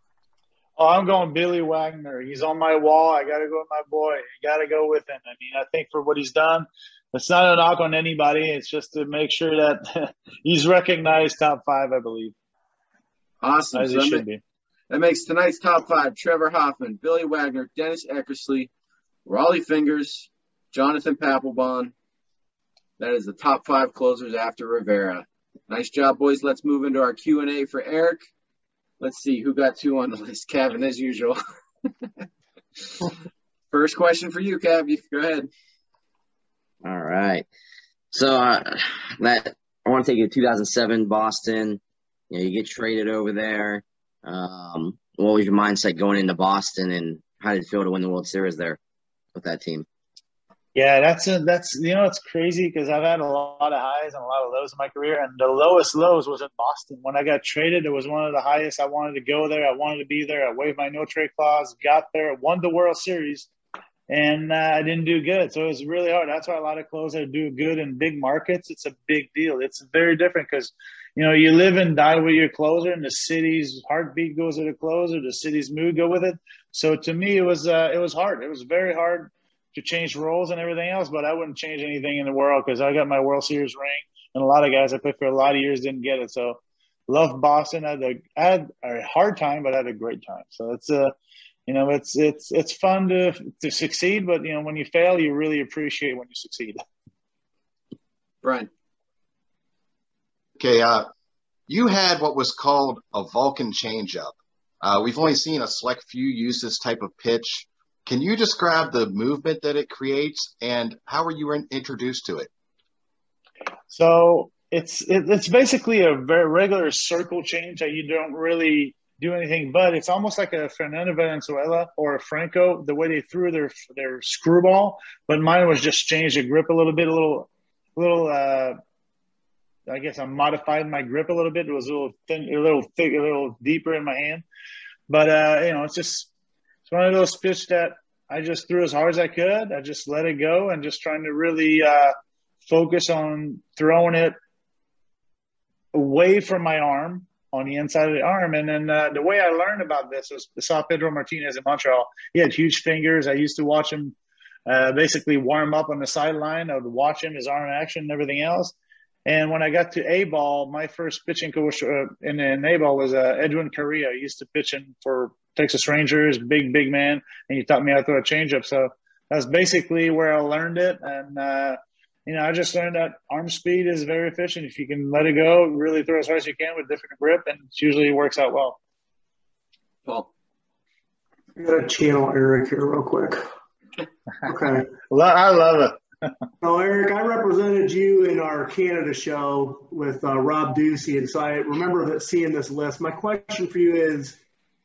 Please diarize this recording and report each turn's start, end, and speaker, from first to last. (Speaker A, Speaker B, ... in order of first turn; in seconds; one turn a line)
Speaker A: 0.8-12.3
Speaker B: 13.4-14.2
Speaker A: 13.7-14.4
Speaker B: 14.9-18.7
Speaker B: 19.2-21.9
Speaker B: 23.0-28.2
Speaker B: 29.0-31.4
Speaker B: 33.7-35.5
Speaker C: 36.8-37.5
Speaker C: 38.1-41.8
Speaker C: 42.3-48.8
Speaker C: 49.4-49.8
Speaker A: 50.7-63.5
Speaker A: 64.1-91.1
Speaker A: 91.7-96.8
Speaker B: 98.4-98.7
Speaker D: 100.6-101.1
Speaker D: 101.7-112.5
Speaker A: 113.9-128.8
Speaker A: 129.9-134.4
Speaker A: 135.1-136.3
Speaker A: 136.9-142.1
Speaker A: 142.6-144.3
Speaker A: 145.9-154.1
Speaker A: 154.7-158.7
Speaker A: 159.2-178.8
Speaker B: 180.0-180.3
Speaker E: 181.6-183.4
Speaker E: 184.4-184.9
Speaker A: 185.1-186.3
Speaker E: 186.6-194.4